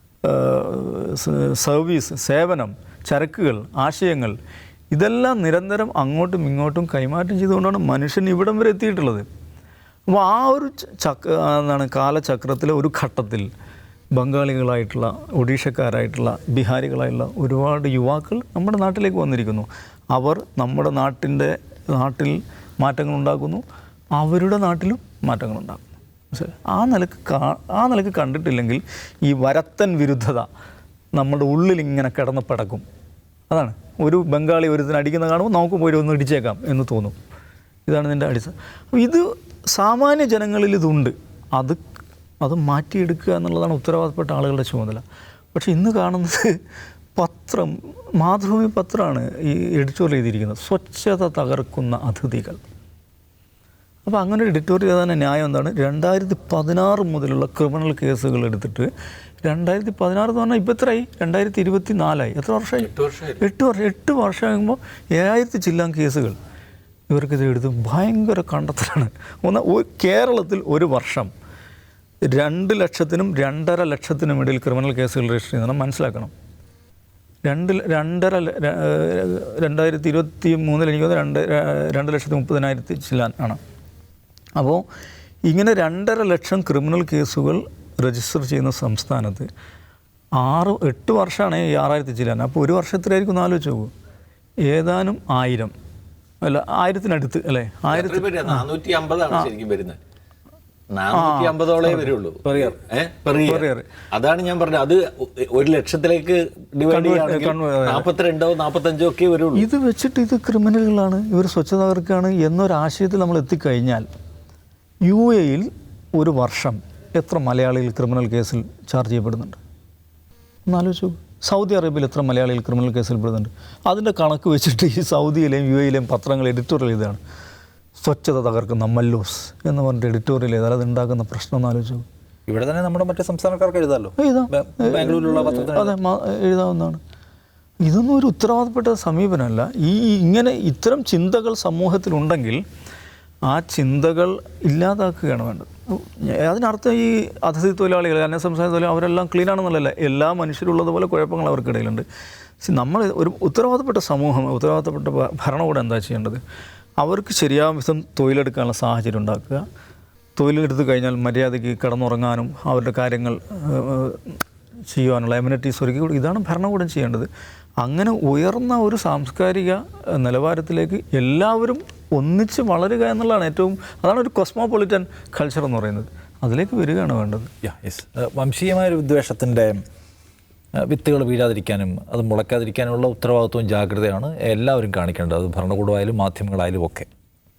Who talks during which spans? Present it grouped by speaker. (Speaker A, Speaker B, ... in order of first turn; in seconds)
Speaker A: 0.2-4.3, 4.9-9.2, 10.1-13.5, 14.1-23.6, 24.1-30.5, 31.1-32.8, 33.5-37.1, 37.9-41.8, 42.4-45.0, 45.5-46.6, 47.1-52.6, 54.0-58.9, 59.4-66.3, 67.1-71.3, 72.2-76.3, 77.4-83.6, 84.6-84.8, 85.5-89.5, 90.4-93.9, 94.7-95.7, 96.4-98.7, 101.1-102.7, 103.4-103.9, 106.9-108.0, 109.5-114.0, 115.0-119.6, 120.7-127.2, 128.0-132.0, 134.2-137.0, 137.8-142.6, 143.5-152.0, 152.6-156.4, 157.0-159.6, 160.4-167.3, 167.8-177.5
Speaker B: 62.9-63.4, 97.9-100.0, 100.9-109.7
Speaker C: 132.5-135.9, 177.6-179.8, 180.8-187.1